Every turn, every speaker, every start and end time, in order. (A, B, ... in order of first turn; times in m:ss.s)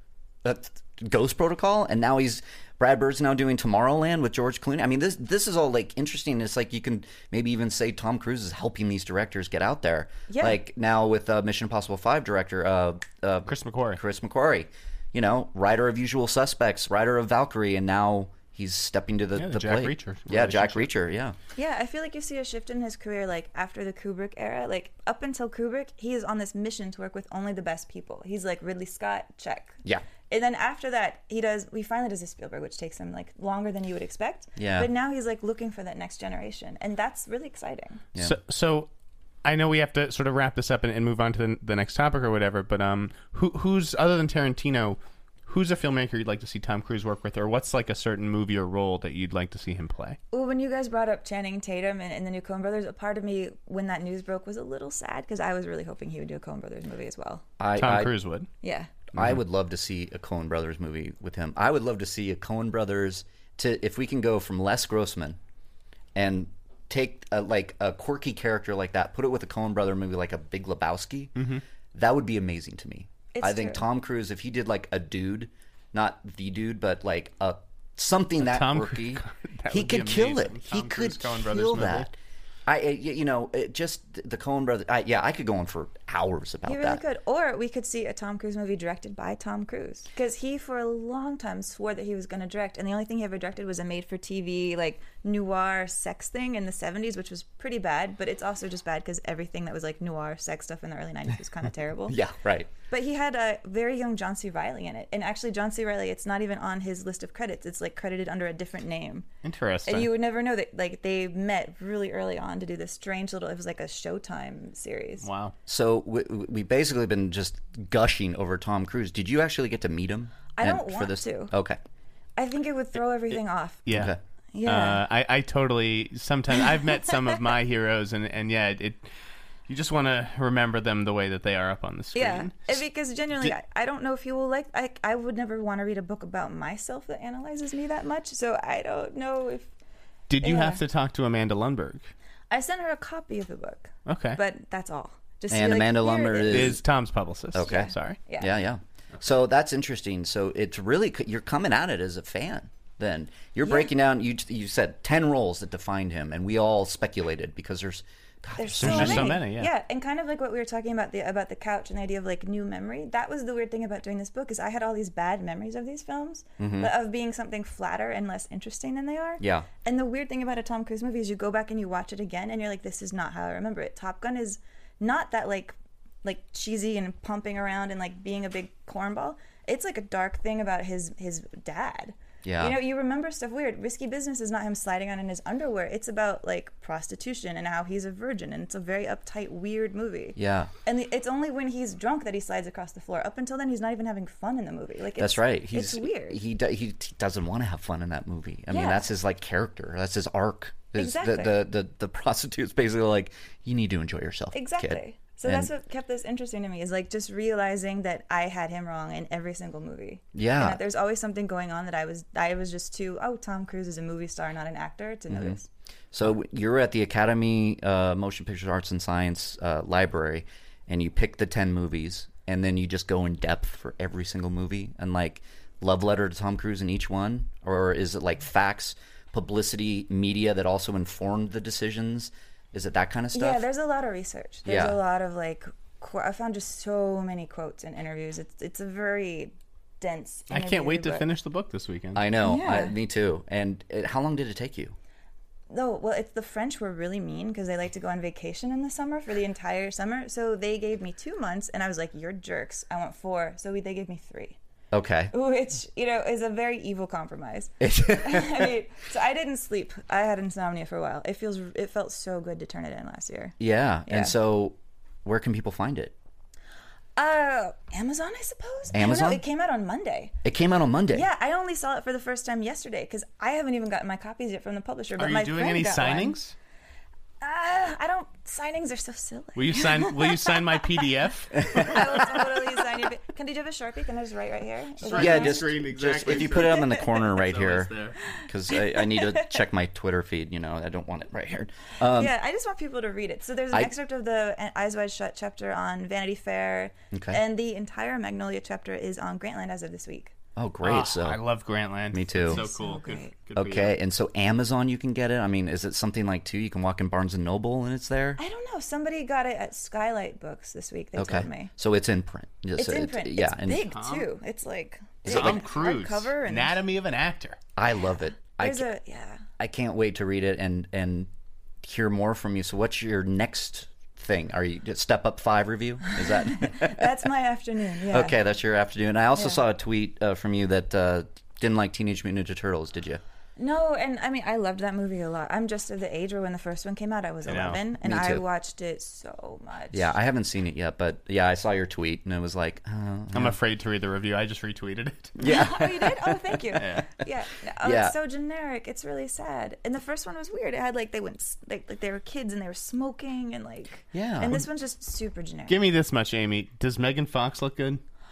0:00.4-0:21.4 A
0:10.3-0:10.6 B
0:13.5-0:14.0 C
0:19.4-0:20.9 C
0:21.6-0:38.0 B
0:34.6-0:34.9 A
0:38.2-0:38.9 C
0:39.4-0:50.2 C
0:50.3-0:57.4 B
0:57.6-0:58.1 A
0:57.8-0:58.5 C
0:58.6-0:58.9 B
0:59.1-1:05.4 A
1:06.2-1:11.4 A
1:11.4-1:11.6 C
1:11.9-1:22.2 A
1:13.3-1:13.9 B
1:18.4-1:22.1 C
1:22.7-1:27.0 A
1:26.6-1:42.2 B
1:42.1-1:42.7 A
1:42.9-1:49.3 B
1:49.4-1:50.1 C
1:49.9-1:55.3 B
1:55.2-1:55.5 C
1:55.7-2:01.8 A
2:00.6-2:01.5 B
2:02.4-2:03.8 B
2:03.9-2:04.1 C
2:03.9-2:04.2 A
2:04.5-2:05.0 B
2:04.7-2:09.0 C
2:09.7-2:12.7 C
2:12.1-2:19.7 B
2:20.3-2:22.1 C
2:20.4-2:20.8 B
2:22.5-2:26.8 B
2:24.1-2:24.4 C
2:25.5-2:26.8 A
2:26.5-2:28.2 C
2:27.5-2:39.4 A
2:27.6-2:28.5 B
2:33.6-2:33.9 B
2:38.6-3:16.4 B
2:38.8-2:39.7 C
2:46.6-2:46.9 A
2:49.4-2:49.7 A
3:02.4-3:02.8 A
3:10.4-3:10.7 A
3:15.2-3:25.7 A
3:18.7-3:19.0 B
3:21.0-3:21.6 B
3:24.5-3:35.7 B
3:30.4-3:30.8 A
3:35.3-3:35.6 A
3:36.1-3:53.7 A
3:53.3-4:01.3 B
3:54.6-3:55.0 A
4:00.5-4:02.2 C
4:02.2-4:05.0 A
4:02.4-4:03.0 B
4:05.7-4:14.6 B
4:14.9-4:15.3 A
4:15.3-4:23.6 B
4:17.8-4:18.7 A
4:23.6-4:26.1 A
4:24.1-4:24.3 B
4:27.2-4:30.3 B
4:28.9-4:29.4 A
4:30.4-4:31.3 A
4:31.1-4:36.4 B
4:35.2-4:36.6 C
4:37.4-4:45.7 B
4:39.6-4:42.6 C
4:41.6-4:42.0 A
4:45.0-4:48.2 C
4:45.1-4:52.3 A
4:48.2-4:49.6 B
4:52.1-5:00.3 B
4:57.1-4:57.4 A
5:00.6-5:01.4 A
5:00.8-5:03.9 C
5:02.1-5:02.6 A
5:02.5-5:03.3 B
5:03.5-5:08.4 A
5:08.4-5:11.7 B
5:11.2-5:13.9 A
5:12.8-5:16.8 B
5:13.9-5:14.3 C
5:15.2-5:15.6 A
5:15.3-5:17.6 C
5:17.8-5:18.9 A
5:18.5-5:19.4 B
5:19.6-5:21.3 A
5:21.8-5:27.1 A
5:26.1-5:28.4 B
5:28.1-5:33.2 A
5:29.4-5:29.6 B
5:33.6-5:40.2 B
5:37.5-5:37.8 C
5:38.0-5:38.4 A
5:39.9-5:43.6 A
5:43.3-5:45.8 C
5:45.4-5:47.0 A
5:45.4-5:55.8 B
5:46.8-5:47.0 C
5:47.8-5:48.1 A
5:54.1-5:54.6 A
5:55.7-5:58.0 C